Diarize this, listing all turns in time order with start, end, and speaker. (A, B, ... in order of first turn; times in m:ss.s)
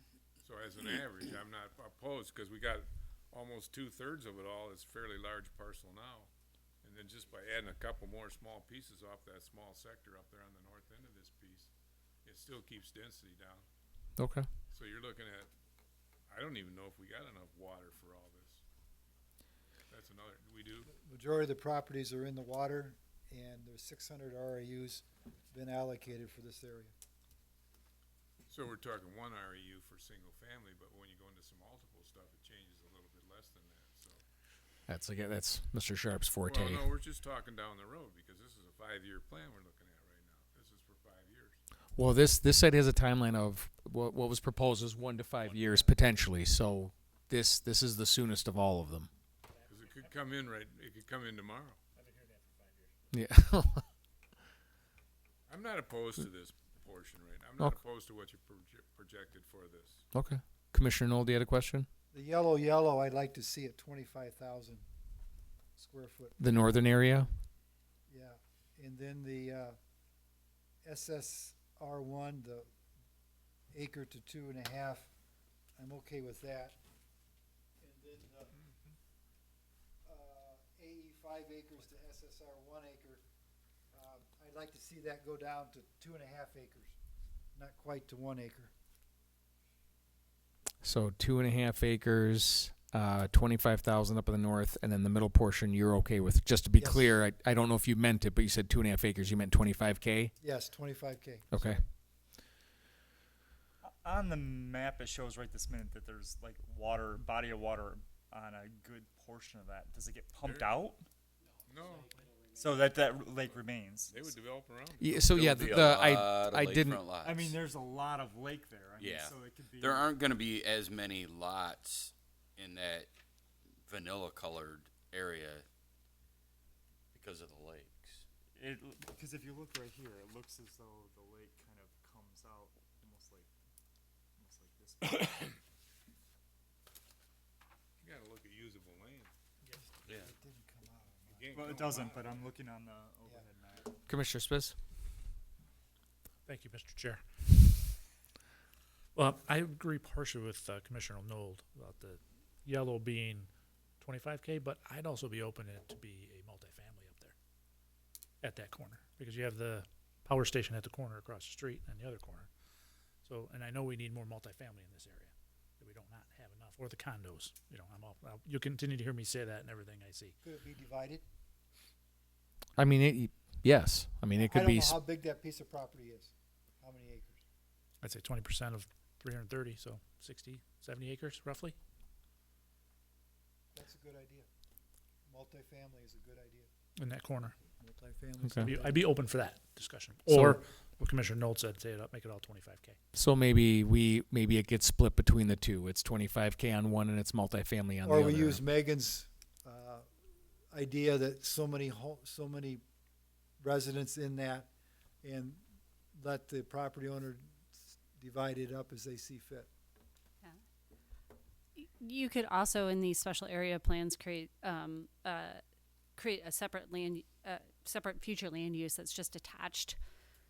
0:00.4-0:06.3 A
0:06.8-0:11.7 A
0:12.2-0:13.7 A
0:14.2-0:14.5 B
0:14.7-0:15.5 A
0:16.3-0:18.6 A
0:19.9-0:20.9 A
0:20.9-0:26.9 C
0:28.5-0:34.2 A
0:34.9-0:36.9 B
0:36.4-0:41.6 A
0:42.0-0:49.1 B
0:45.4-0:46.0 D
0:49.5-0:50.3 D
0:49.7-0:51.8 A
0:52.0-0:53.1 D
0:53.1-0:53.8 B
0:55.5-1:00.1 A
1:00.1-1:01.9 B
1:02.1-1:04.8 C
1:05.8-1:06.4 C
1:06.4-1:07.3 B
1:08.1-1:09.8 C
1:10.8-1:12.7 C
1:13.7-1:15.1 C
1:15.8-1:16.8 C
1:17.8-1:18.6 C
1:20.0-1:23.2 C
1:23.9-1:27.0 C
1:27.6-1:28.7 C
1:30.8-1:40.3 B
1:36.8-1:37.2 C
1:40.4-1:41.5 C
1:41.5-1:41.8 B
1:41.6-1:41.8 A
1:43.8-1:51.1 E
1:50.4-1:50.7 A
1:51.7-1:52.1 A
1:52.5-1:54.3 E
1:53.4-1:55.4 A
1:55.0-1:57.0 B
1:55.3-1:57.6 F
1:57.2-2:00.1 E
1:59.0-2:03.1 F
2:03.8-2:05.7 F
2:07.1-2:08.2 F
2:08.6-2:13.5 E
2:14.4-2:15.6 E
2:18.0-2:19.3 A
2:19.8-2:21.9 C
2:20.1-2:20.3 F
2:21.3-2:22.5 A
2:21.5-2:24.0 E
2:24.1-2:24.8 B
2:26.5-2:27.6 D
2:29.2-2:37.3 D
2:38.4-2:42.5 D
2:43.2-2:50.4 D
2:50.4-2:51.2 C
2:52.8-2:55.0 B
2:54.3-2:57.4 C
2:58.0-3:01.8 D
3:03.7-3:04.5 C
3:05.3-3:06.7 C
3:07.0-3:07.6 D
3:07.8-3:09.1 C
3:08.6-3:13.0 D
3:10.3-3:10.6 B
3:13.1-3:18.6 B
3:18.0-3:20.1 C
3:20.7-3:22.8 C
3:23.6-3:24.7 C
3:25.2-3:25.6 C
3:26.2-3:29.7 C
3:31.8-3:35.6 G
3:36.2-3:40.0 G